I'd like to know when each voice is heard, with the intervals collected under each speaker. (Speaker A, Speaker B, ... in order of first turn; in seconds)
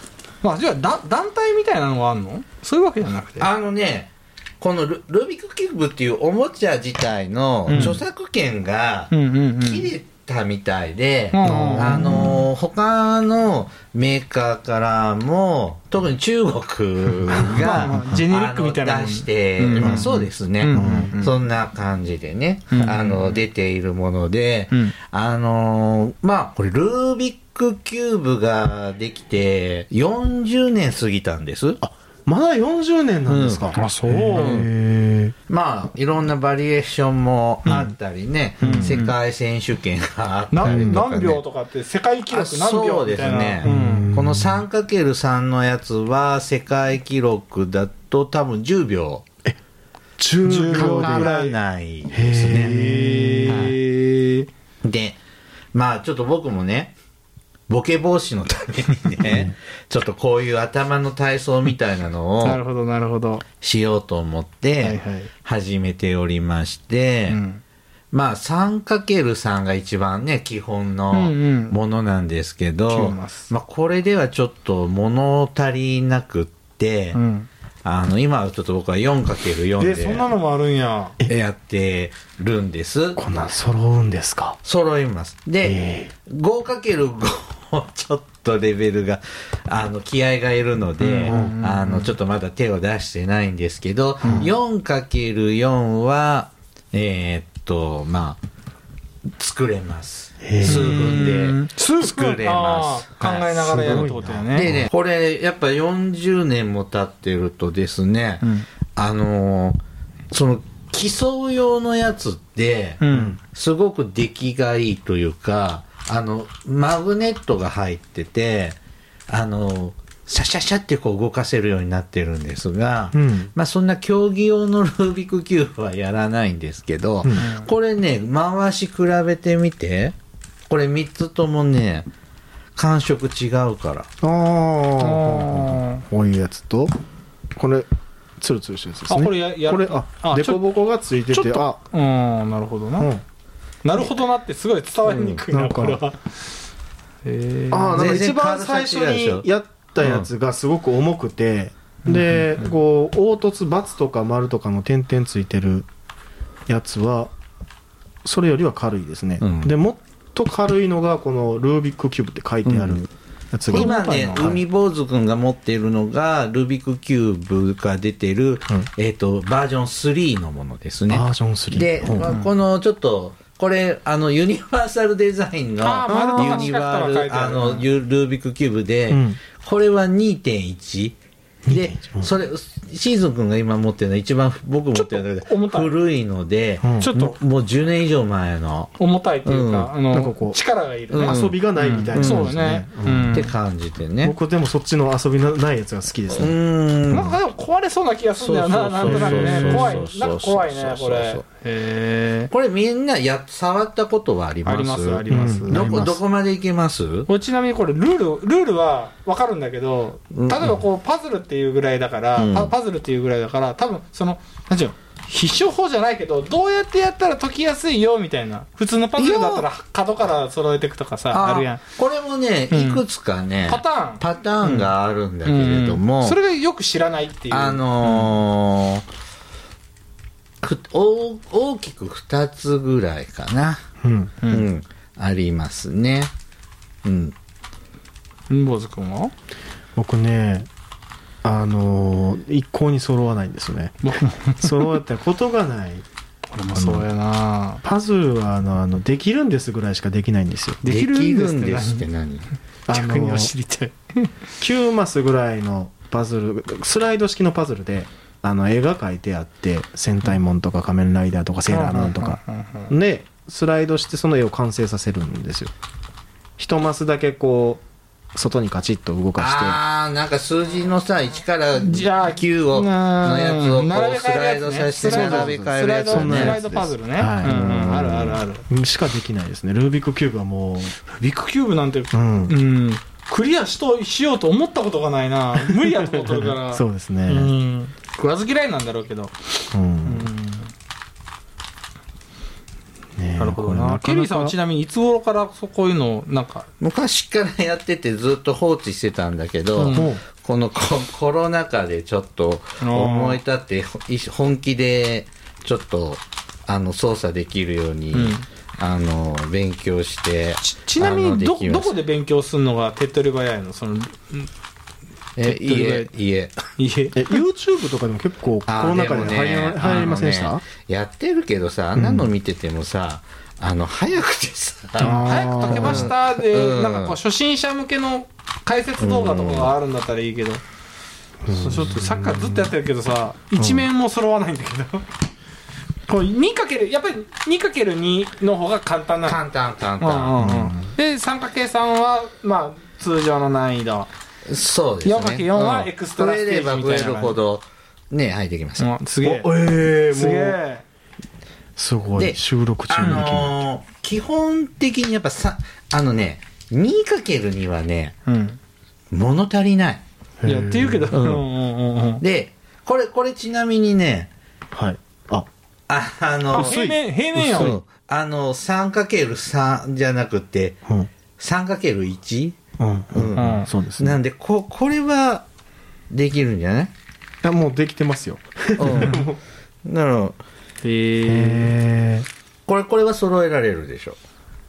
Speaker A: 0.4-3.5, 7.7-8.0, 9.1-9.9, 11.3-12.2, 17.4-21.3, 22.7-23.3, 33.8-34.6, 38.6-39.1, 40.5-44.1, 50.5-51.5, 52.5-54.5, 62.4-63.4, 64.8-65.3, 67.3-67.6, 71.1-71.8, 72.9-73.5, 77.1-77.5, 79.8-81.2, 91.0-92.1, 94.2-94.5, 100.6-104.7, 113.0-113.4, 127.3-127.7, 135.0-136.1, 139.1-140.6, 141.3-143.1, 143.8-146.2, 147.2-148.0, 152.1-152.4, 163.7-164.6, 175.8-177.9, 184.9-185.9, 187.0-187.4, 189.0-193.5, 197.1-202.5, 204.7-205.9, 207.3-221.8, 222.7-223.0, 223.7-224.9, 225.4-228.3, 234.4-234.7, 238.5-239.3, 244.0-244.7, 246.5-247.8, 250.8-252.1, 252.9-254.3, 261.7-262.9, 271.8-278.7, 281.1-289.4, 290.0-290.7, 293.4-296.7, 299.8-300.1, 302.8-303.4, 308.1-308.4, 310.6-314.5, 315.4-316.1, 316.8-317.4, 325.0-330.6, 331.5-335.1, 336.1-339.4, 340.0-344.1, 345.0-347.4, 348.8-349.5, 350.1-350.9, 358.2-358.6, 360.4-362.2, 366.5-367.8, 373.4-373.7, 378.9-379.1, 380.8-381.7
Speaker B: 3.4-31.8, 33.3-33.8, 34.3-34.7, 35.5-41.4, 42.3-49.2, 50.6-52.8, 53.5-53.7, 54.8-55.2, 55.7-57.0, 57.7-62.6, 63.6-67.4, 68.1-77.2, 77.8-80.3, 81.3-83.2, 84.6-98.4, 99.4-109.8, 110.3-130.2, 130.7-132.1, 132.8-134.1, 145.1-145.4, 147.9-149.4, 150.0-150.3, 159.4-159.7, 162.7-163.1, 163.7-181.2, 181.7-188.9, 189.4-189.9, 191.1-191.6, 192.1-192.5, 193.3-194.3, 196.3-197.4, 198.4-201.4, 202.5-207.3, 210.3-210.7, 212.4-212.7, 219.2-219.7, 221.3-226.4, 227.5-229.1, 230.6-233.8, 234.5-236.3, 237.0-237.3, 250.9-252.5, 269.4-276.9, 277.5-278.2, 296.8-311.9, 315.4-316.6, 318.7-327.2, 329.0-329.7, 339.2-340.5, 344.4-348.9, 352.2-358.2, 359.1-360.0, 362.2-364.3, 365.9-366.8, 367.4-370.8, 371.4-372.6, 373.1-375.4, 376.1-376.9, 378.8-379.3, 379.8-380.4, 382.7-384.2
Speaker C: 7.7-8.0, 11.4-12.5, 17.3-18.0, 19.8-20.1, 20.7-21.1, 31.8-35.3, 38.6-39.0, 40.6-41.0, 43.6-44.6, 50.2-51.3, 52.1-53.7, 59.2-59.5, 83.2-84.6, 85.6-86.1, 91.3-91.5, 94.2-94.5, 100.4-101.0, 103.6-104.9, 113.1-113.4, 123.1-123.5, 134.2-136.9, 137.6-137.9, 138.4-141.8, 143.0-143.2, 145.5-146.0, 147.7-155.9, 156.7-157.3, 158.2-164.6, 171.1-172.3, 176.1-176.7, 179.1-179.4, 181.7-182.3, 186.8-187.1, 190.1-190.6, 191.2-193.4, 194.2-196.6, 199.0-200.1, 205.3-206.2, 234.0-234.3, 239.9-240.7, 241.4-243.9, 244.6-246.1, 246.7-247.1, 247.8-250.8, 252.9-253.5, 254.6-265.7, 266.6-269.8, 275.0-276.6, 277.2-280.9, 282.1-282.6, 286.1-287.5, 289.7-290.3, 293.2-294.6, 299.9-300.2, 317.1-320.6, 321.9-322.3, 325.0-326.1, 331.4-332.7, 333.6-333.9, 340.4-340.9, 349.2-350.6, 351.8-353.6, 360.4-361.4, 364.7-365.5, 366.5-367.8, 372.8-374.2, 377.4-379.4, 381.3-382.3